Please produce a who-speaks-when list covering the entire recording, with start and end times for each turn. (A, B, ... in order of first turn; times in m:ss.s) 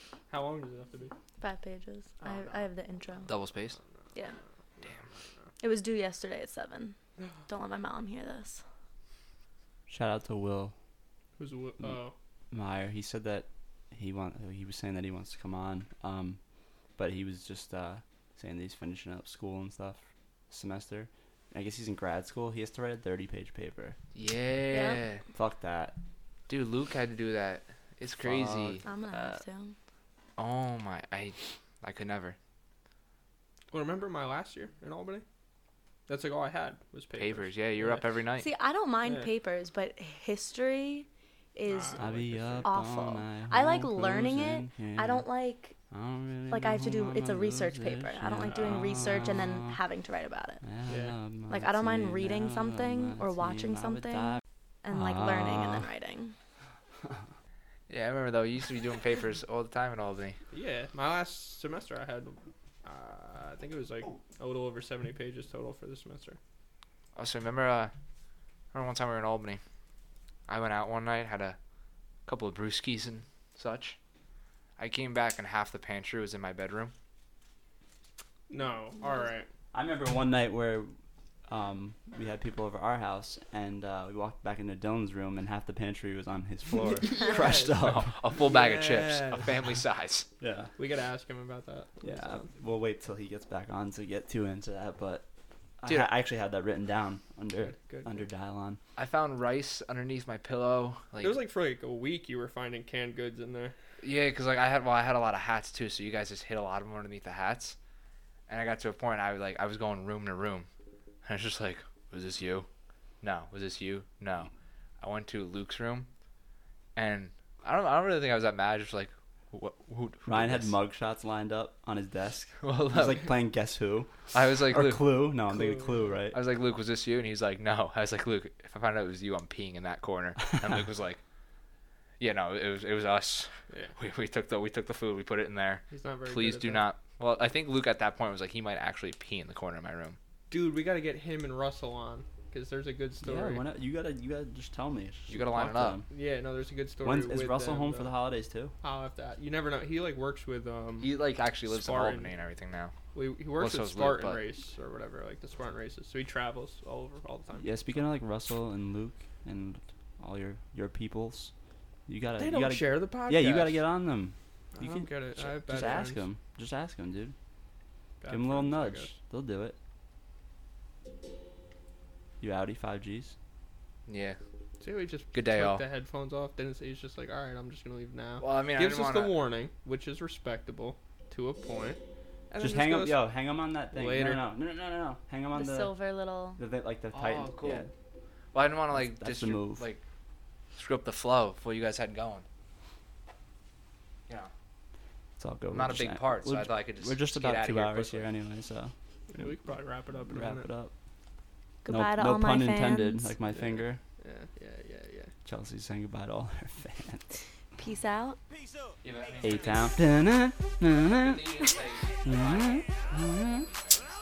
0:00.3-0:01.1 A
0:01.4-0:03.3 B
0:02.2-0:02.7 A
0:03.3-0:03.8 C
0:04.8-0:05.5 A
0:05.6-0:07.0 B
0:07.5-0:08.6 B
0:09.9-0:10.7 D
0:11.4-0:12.1 A
0:12.5-0:16.4 D
0:17.0-0:24.0 D
0:24.2-0:25.2 C
0:24.7-0:25.0 B
0:25.3-0:26.0 D
0:26.5-0:28.9 C
0:28.2-0:28.9 D
0:28.8-0:29.7 B
0:30.4-0:32.4 C
0:33.7-0:35.2 A
0:36.1-0:38.0 A
0:37.2-0:38.5 C
0:38.4-0:42.1 B
0:41.7-0:42.7 A
0:42.0-0:45.3 D
0:42.6-0:45.8 B
0:45.9-0:49.8 D
0:46.5-0:50.6 B
0:48.4-0:49.1 A
0:50.6-0:55.9 D
0:50.9-0:51.2 A
0:51.5-0:56.4 B
0:57.9-1:00.4 C
1:00.5-1:06.4 A
1:07.2-1:07.9 C
1:08.7-1:09.6 C
1:10.5-1:11.6 C
1:12.3-1:14.0 C
1:14.8-1:16.9 C
1:18.5-1:19.5 A
1:19.7-1:20.9 D
1:21.5-1:28.1 D
1:27.1-1:27.8 A
1:27.8-1:30.3 C
1:28.4-1:29.7 A
1:30.4-1:30.7 D
1:30.8-1:32.5 A
1:32.0-1:35.3 D
1:35.8-1:38.8 D
1:35.8-1:36.1 C
1:37.6-1:38.2 A
1:39.0-1:41.4 C
1:41.2-1:43.8 A
1:44.0-1:47.8 C
1:48.5-1:50.7 C
1:51.2-1:52.7 C
1:53.2-1:54.5 C
1:55.0-1:56.1 C
1:57.0-2:00.8 C
2:00.3-2:06.4 D
2:02.6-2:03.3 C
2:04.3-2:05.1 C
2:05.5-2:06.1 A
2:06.3-2:11.2 C
2:12.2-2:20.2 C
2:13.7-2:14.0 A
2:15.9-2:16.8 A
2:20.5-2:23.6 A
2:23.2-2:26.1 D
2:25.3-2:26.0 C
2:26.1-2:28.1 A
2:27.0-2:28.7 D
2:28.8-2:31.2 A
2:31.0-2:33.0 C
2:31.7-2:32.3 A
2:33.1-2:38.1 A
2:33.6-2:34.4 C
2:37.6-2:41.5 D
2:42.1-2:47.4 D
2:42.4-2:43.8 A
2:44.8-2:46.2 A
2:48.2-2:49.1 A
2:48.3-2:49.8 D
2:52.4-2:53.3 D
2:54.1-2:54.4 C
2:54.8-3:03.2 A
2:55.3-2:55.8 C
2:58.4-2:59.4 C
3:02.6-3:05.9 D
3:03.9-3:04.4 A
3:05.5-3:06.6 B
3:06.6-3:07.9 D
3:07.1-3:07.9 C
3:08.5-3:10.0 C
3:08.9-3:09.8 D
3:10.8-3:12.5 C
3:15.4-3:19.6 D
3:15.7-3:18.3 C
3:19.3-3:20.7 A
3:20.3-3:20.9 D
3:21.8-3:23.3 B
3:21.9-3:24.0 D
3:23.5-3:25.3 A
3:25.4-3:27.2 D
3:27.8-3:28.4 B
3:29.0-3:29.9 C
3:29.4-3:31.4 D
3:31.1-3:32.8 C
3:32.2-3:33.7 D